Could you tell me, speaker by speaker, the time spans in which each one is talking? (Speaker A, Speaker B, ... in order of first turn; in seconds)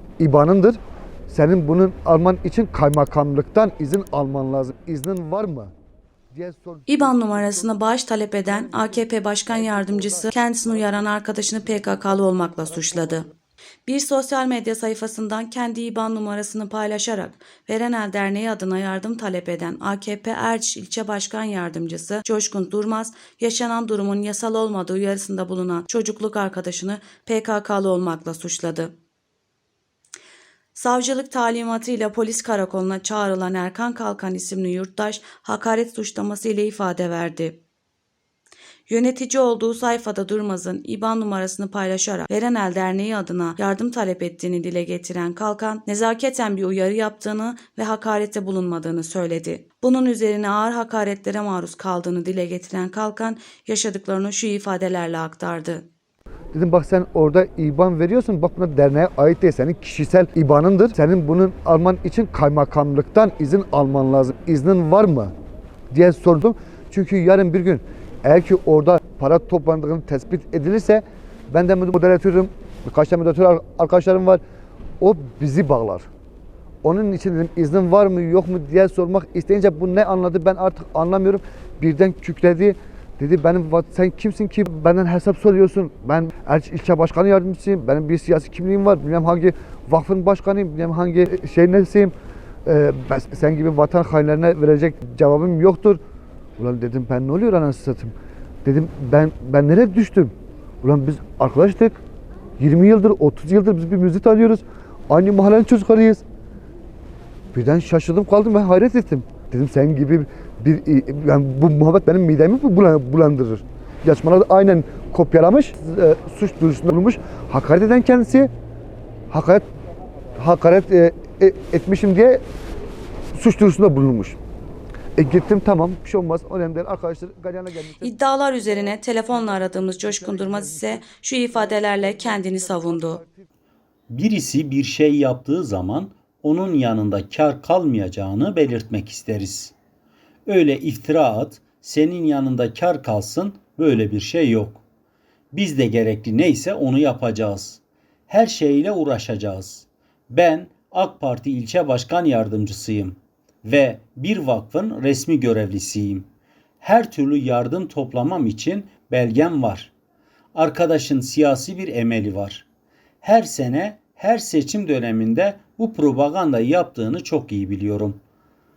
Speaker A: 0.2-5.7, 6.3-7.7, 8.3-13.3, 56.5-65.3, 65.9-74.4, 75.0-76.1, 76.8-92.1, 92.6-96.0, 96.6-102.0, 102.6-106.2, 107.5-118.5, 119.3-119.7, 120.3-122.4, 123.3-124.4, 125.2-128.1, 128.8-133.5
Speaker B: 6.9-13.3, 13.8-28.9, 30.7-37.6, 38.9-55.9, 128.0-133.2
Speaker C: 134.1-139.7, 140.4-144.8, 145.5-156.3, 156.8-159.9, 160.5-162.7, 163.2-168.2